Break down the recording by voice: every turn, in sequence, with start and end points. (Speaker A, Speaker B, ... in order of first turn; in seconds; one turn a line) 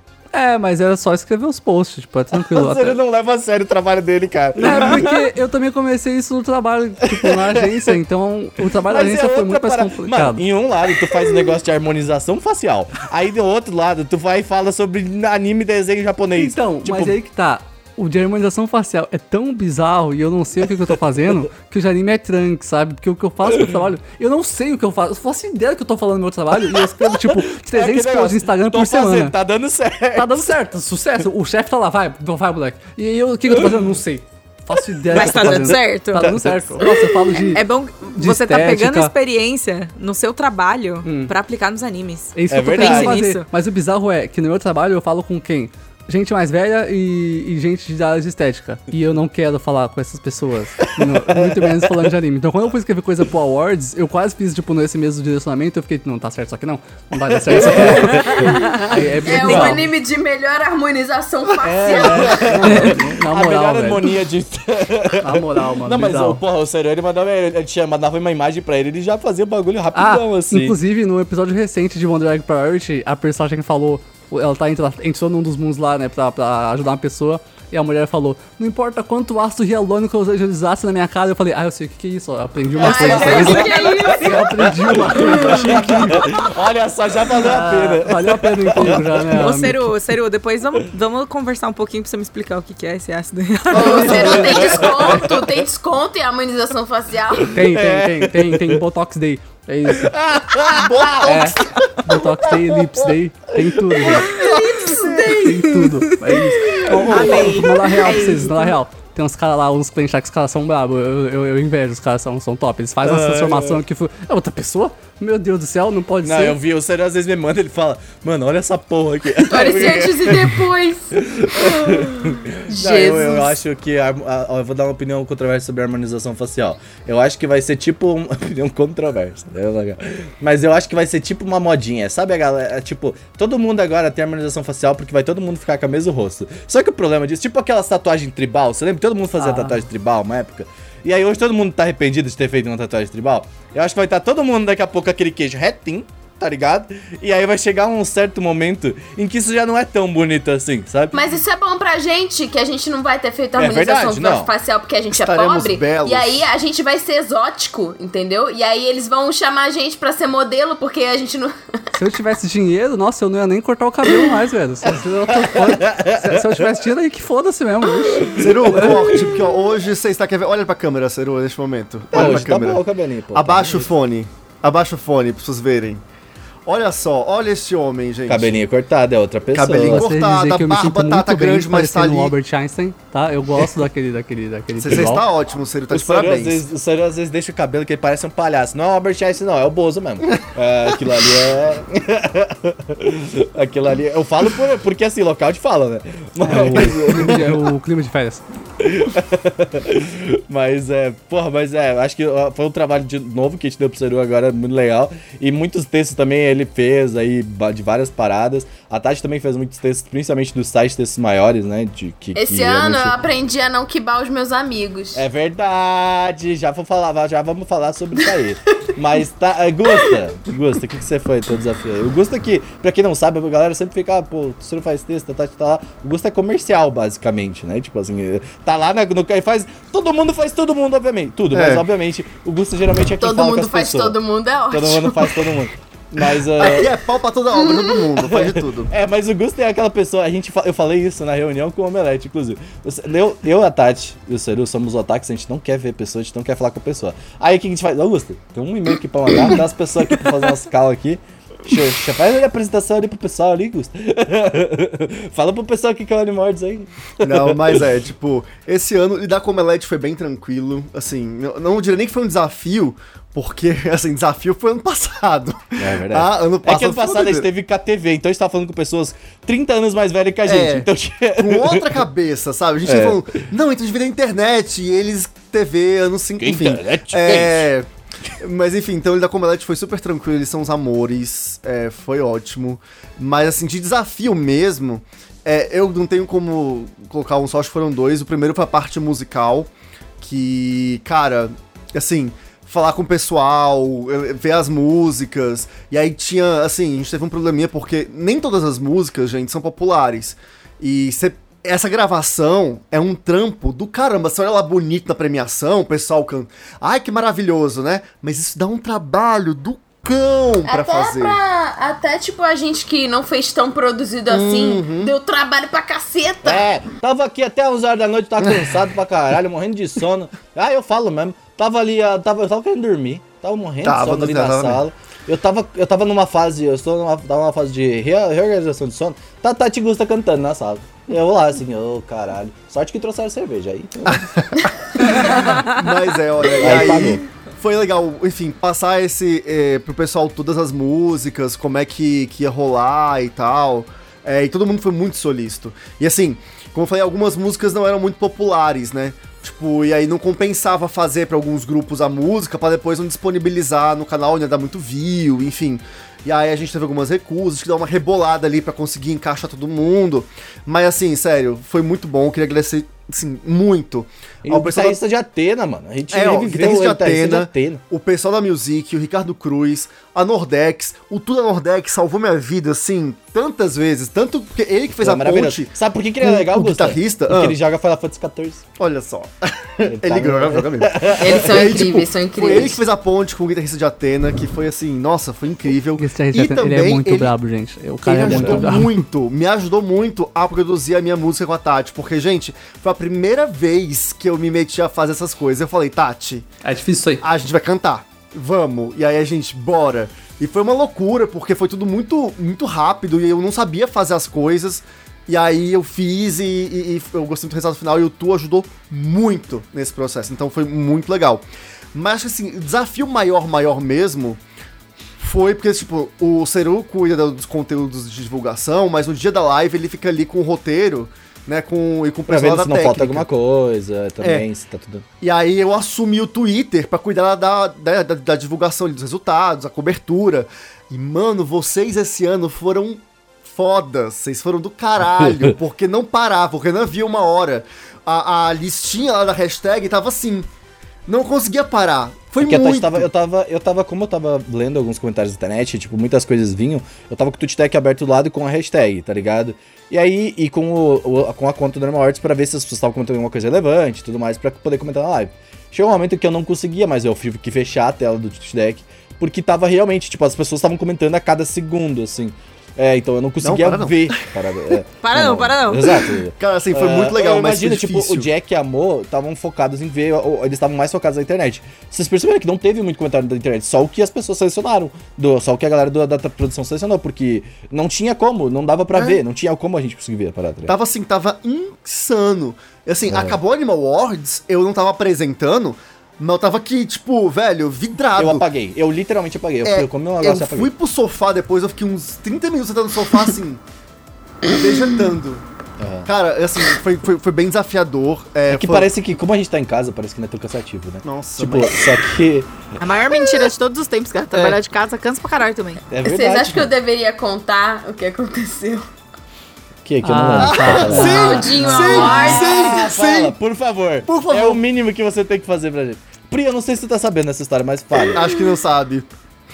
Speaker A: 0.3-3.0
Speaker B: 2.3-5.3
Speaker A: 4.6-10.4
Speaker B: 7.0-8.0
Speaker B: 8.8-17.2
Speaker A: 16.4-29.3
Speaker B: 26.6-30.5
Speaker A: 30.1-37.6
Speaker B: 33.5-33.9
Speaker B: 34.8-36.7
Speaker C: 35.1-36.3
Speaker C: 37.4-43.5
Speaker A: 38.2-39.1
Speaker A: 41.0-41.3
Speaker A: 42.4-59.9
Speaker B: 42.5-43.2
Speaker B: 50.8-52.1
Speaker B: 57.3-59.8
Speaker D: 59.2-62.9
Speaker B: 61.6-70.8
Speaker A: 62.3-64.1
Speaker A: 65.2-66.4
Speaker A: 70.0-86.5
Speaker C: 82.8-85.0
Speaker B: 82.8-89.3
Speaker D: 82.8-84.3
Speaker D: 85.2-85.8
Speaker A: 87.3-89.9
Speaker C: 89.3-94.8
Speaker D: 93.7-97.6
Speaker B: 93.7-95.5
Speaker A: 93.8-94.6
Speaker B: 97.4-98.8
Speaker A: 97.5-100.1
Speaker B: 99.9-104.5
Speaker E: 100.6-102.0
Speaker A: 101.2-104.4
Speaker E: 104.0-105.8
Speaker D: 104.3-105.7
Speaker A: 105.3-116.6
Speaker B: 106.9-107.7
Speaker C: 106.9-108.7
Speaker E: 107.1-107.4
Speaker B: 113.0-113.8
Speaker B: 116.2-151.2
Speaker D: 119.5-123.5
Speaker A: 139.4-139.8
Speaker D: 151.1-161.5
Speaker B: 153.6-154.5
Speaker E: 155.1-156.5
Speaker A: 161.9-169.2
Speaker B: 164.8-166.8
Speaker B: 168.1-169.4
Speaker E: 168.4-172.8
Speaker B: 172.1-173.9
Speaker E: 173.3-176.0
Speaker E: 176.7-178.6
Speaker B: 178.3-180.1
Speaker E: 179.5-182.3
Speaker A: 179.8-185.2
Speaker E: 184.8-186.6
Speaker B: 185.9-197.6
Speaker A: 196.4-198.4
Speaker B: 198.8-213.2
Speaker D: 212.3-215.2
Speaker B: 215.2-234.2
Speaker D: 219.9-220.2
Speaker E: 231.5-231.8
Speaker D: 233.2-235.6
Speaker B: 234.7-236.9
Speaker E: 236.6-238.9
Speaker D: 237.6-237.9
Speaker B: 238.2-257.9
Speaker E: 257.2-267.5
Speaker B: 265.8-272.0
Speaker E: 270.5-277.9
Speaker B: 272.9-273.2
Speaker B: 276.4-277.7
Speaker E: 278.4-311.4
Speaker D: 310.7-316.7
Speaker E: 314.3-315.1
Speaker B: 316.4-335.6
Speaker E: 323.8-324.8
Speaker E: 334.1-365.0
Speaker B: 336.5-337.2
Speaker B: 364.4-367.8
Speaker E: 366.1-377.6
Speaker B: 374.9-378.6
Speaker E: 378.8-387.4
Speaker B: 379.8-381.8
Speaker D: 381.2-382.8
Speaker A: 386.0-389.0
Speaker E: 388.0-396.5
Speaker B: 388.2-388.7
Speaker A: 396.6-397.2
Speaker E: 397.2-414.4
Speaker E: 415.2-423.3
Speaker B: 422.3-425.1
Speaker E: 424.2-424.5
Speaker E: 425.2-440.5
Speaker B: 435.1-435.5
Speaker E: 441.1-443.1
Speaker B: 442.4-480.8
Speaker E: 463.4-464.3
Speaker C: 465.0-466.0
Speaker E: 466.4-468.3
Speaker E: 478.9-479.2
Speaker E: 480.7-488.4
Speaker B: 483.1-483.4
Speaker B: 488.2-490.7
Speaker E: 489.6-493.6
Speaker E: 494.4-495.4
Speaker B: 495.8-496.1
Speaker E: 496.1-498.9
Speaker B: 498.5-502.5
Speaker E: 501.0-502.0
Speaker C: 502.8-505.8
Speaker B: 505.9-506.7
Speaker D: 506.0-508.9
Speaker B: 509.9-518.2
Speaker A: 510.0-511.6
Speaker E: 510.4-513.3
Speaker D: 510.9-512.5
Speaker E: 514.1-514.6
Speaker E: 518.0-519.1